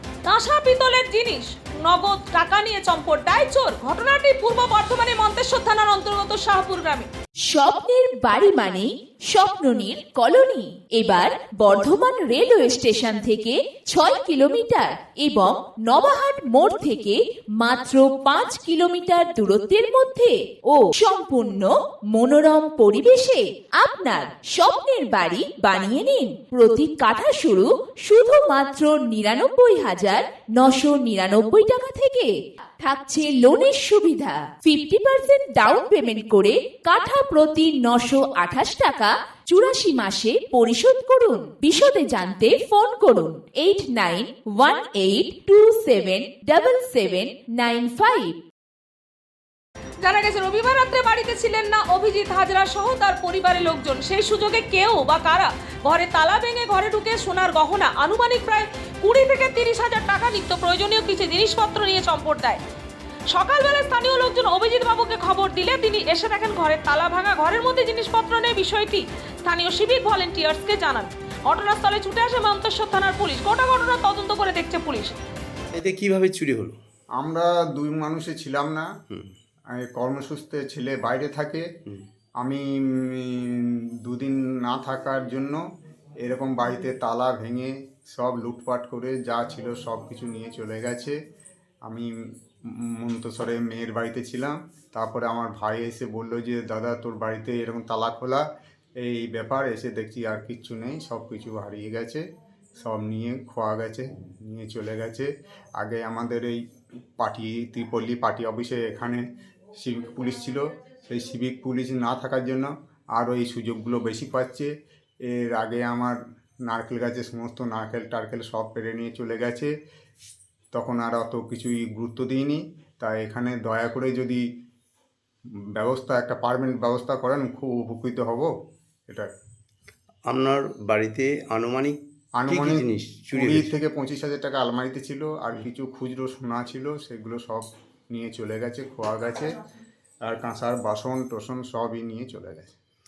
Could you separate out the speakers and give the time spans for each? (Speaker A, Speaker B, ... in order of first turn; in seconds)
Speaker A: 0.2-7.1, 50.0-62.6, 63.3-75.1
Speaker B: 7.5-48.3
Speaker C: 75.7-76.8, 130.3-133.7
Speaker D: 77.2-78.9, 79.7-81.7, 82.4-85.6, 86.2-91.2, 93.0-98.4, 99.0-102.2, 102.8-106.6, 107.2-109.2, 109.8-114.7, 115.3-119.7, 120.7-124.4, 125.8-128.5, 132.4-139.5, 140.2-142.7